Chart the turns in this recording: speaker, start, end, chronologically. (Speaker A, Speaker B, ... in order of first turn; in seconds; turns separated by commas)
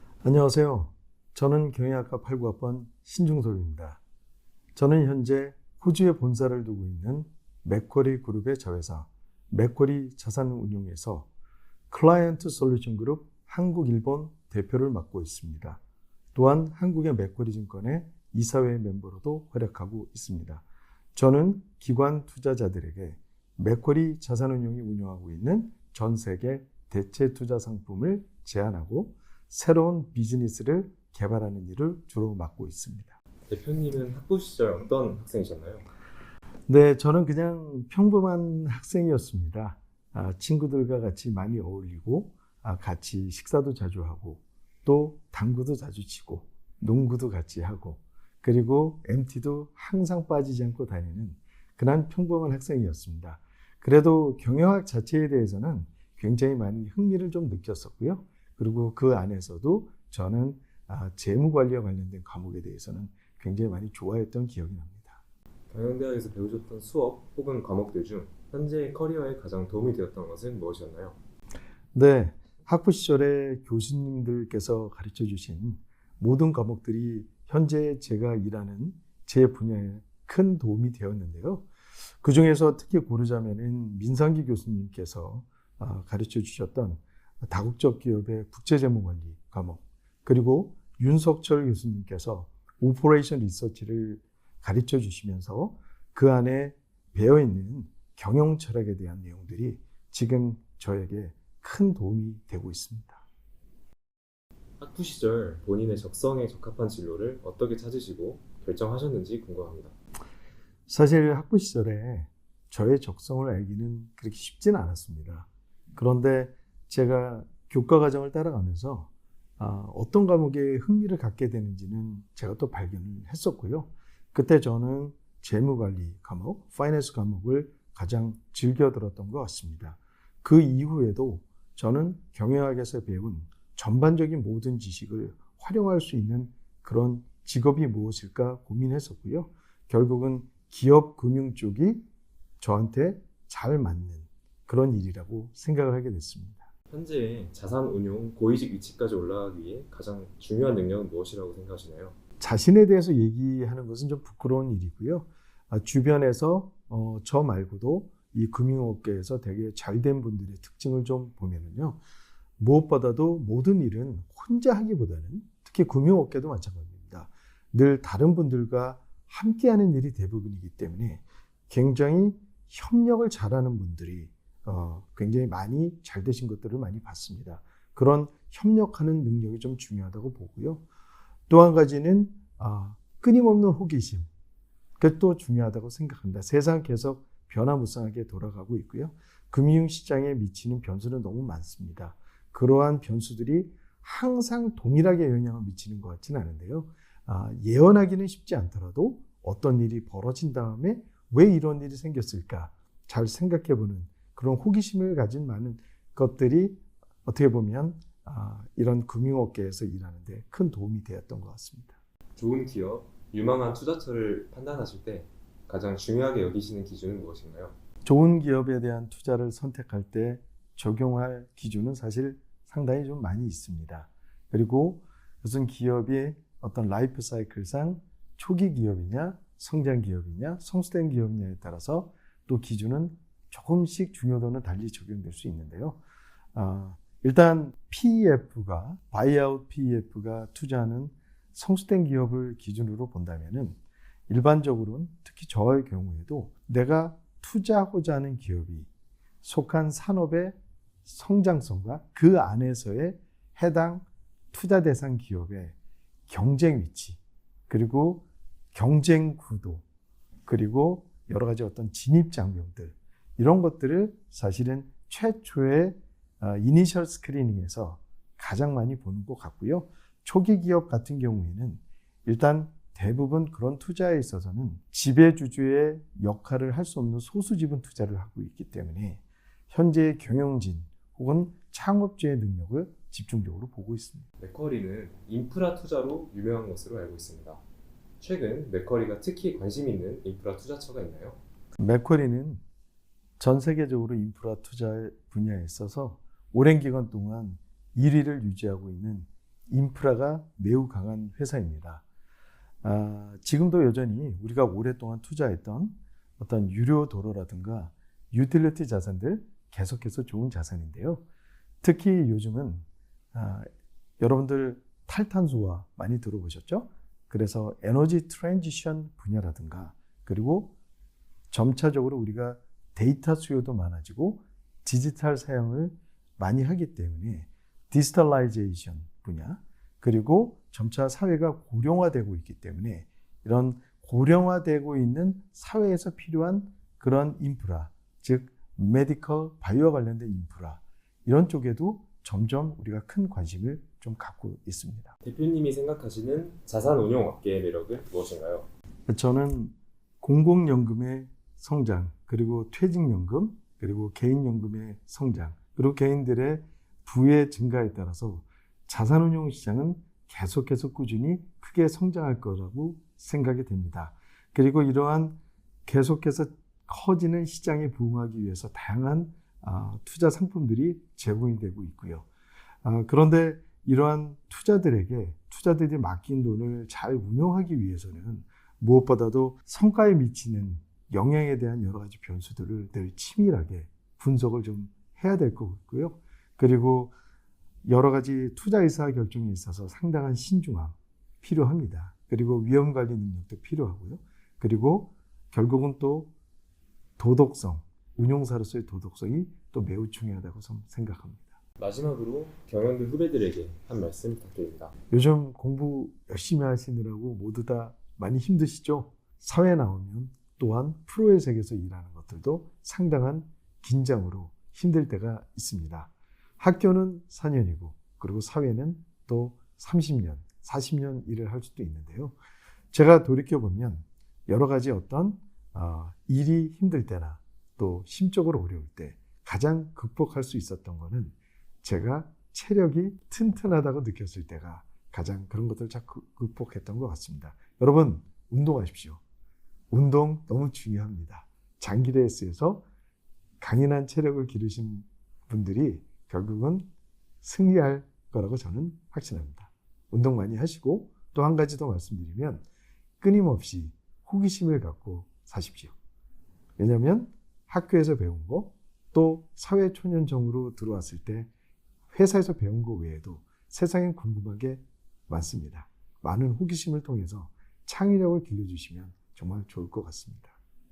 Speaker A: 0.2-4.0, Speaker A: 4.8-11.3, Speaker A: 11.9-15.8, Speaker A: 16.4-20.6, Speaker A: 21.1-33.2, Speaker B: 33.5-35.9, Speaker A: 36.7-65.2, Speaker B: 65.7-71.2, Speaker A: 72.0-81.7, Speaker A: 82.2-103.2, Speaker B: 104.8-109.9, Speaker A: 110.9-142.0, Speaker A: 142.6-146.7, Speaker B: 146.9-152.2, Speaker A: 152.4-162.0, Speaker A: 162.6-180.8, Speaker A: 181.5-184.3, Speaker A: 185.0-212.0, Speaker B: 212.4-217.8, Speaker A: 218.0-236.0, Speaker A: 236.6-243.8, Speaker A: 244.3-248.9, Speaker A: 249.4-250.6, Speaker A: 251.1-255.8, Speaker A: 256.3-259.8, Speaker A: 260.5-284.3, Speaker B: 284.4-287.6, Speaker B: 288.2-291.4, Speaker A: 291.8-292.6, Speaker A: 293.4-302.0, Speaker A: 302.8-311.2, Speaker A: 311.8-313.7, Speaker A: 314.2-320.7, Speaker A: 321.5-345.1, Speaker B: 345.2-348.7, Speaker A: 349.1-372.3, Speaker A: 372.8-387.1, Speaker A: 387.9-396.3, Speaker A: 397.2-401.6, Speaker B: 401.8-404.9, Speaker A: 405.1-422.4, Speaker A: 422.9-439.2, Speaker A: 439.9-442.9, Speaker A: 443.6-446.9, Speaker A: 447.4-452.6, Speaker A: 453.2-455.9, Speaker A: 456.8-461.5, Speaker A: 462.1-470.6